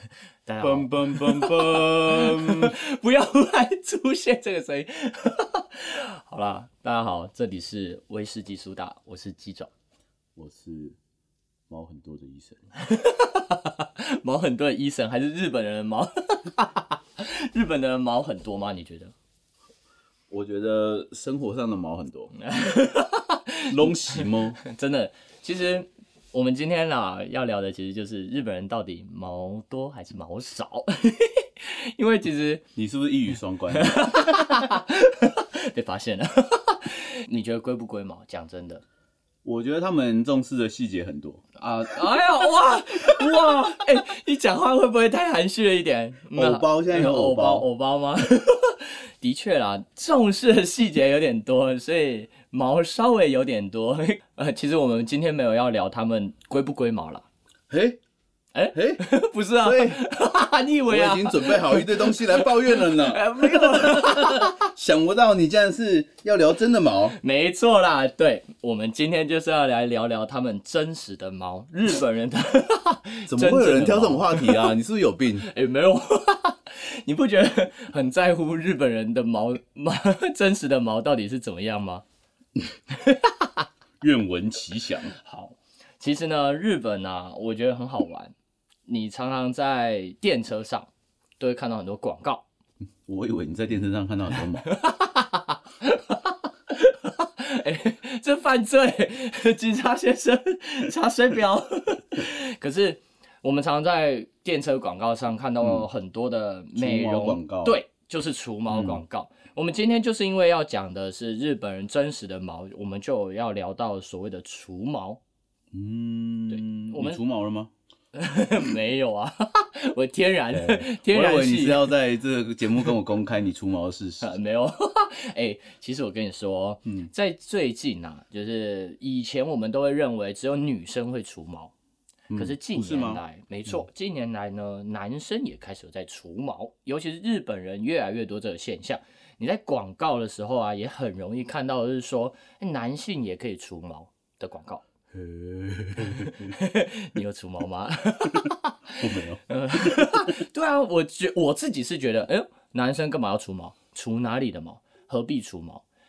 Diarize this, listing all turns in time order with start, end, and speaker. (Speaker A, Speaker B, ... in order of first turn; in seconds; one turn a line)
Speaker A: 0.5-9.7
Speaker B: 0.6-2.8
Speaker B: 10.3-11.0
Speaker B: 11.7-12.6
Speaker A: 12.8-19.1
Speaker B: 20.3-22.3
Speaker A: 22.3-32.6
Speaker B: 23.7-24.6
Speaker B: 32.8-34.3
Speaker A: 33.7-38.8
Speaker B: 39.4-41.4
Speaker A: 41.6-57.2
Speaker B: 46.3-47.6
Speaker B: 57.7-58.0
Speaker A: 58.5-64.7
Speaker B: 58.7-59.0
Speaker B: 59.6-60.0
Speaker B: 60.9-67.2
Speaker A: 67.2-74.7
Speaker B: 73.3-75.5
Speaker A: 75.4-82.0
Speaker A: 82.9-83.6
Speaker B: 84.0-85.1
Speaker A: 85.2-88.3
Speaker A: 88.9-92.4
Speaker B: 93.0-94.6
Speaker A: 94.6-115.2
Speaker B: 105.6-105.8
Speaker B: 106.8-107.8
Speaker B: 108.7-109.0
Speaker B: 115.7-117.7
Speaker A: 116.5-117.2
Speaker A: 118.1-121.9
Speaker B: 120.5-124.3
Speaker A: 124.2-131.7
Speaker B: 132.3-133.2
Speaker A: 132.3-144.8
Speaker B: 145.1-146.5
Speaker A: 146.0-155.8
Speaker B: 148.3-150.2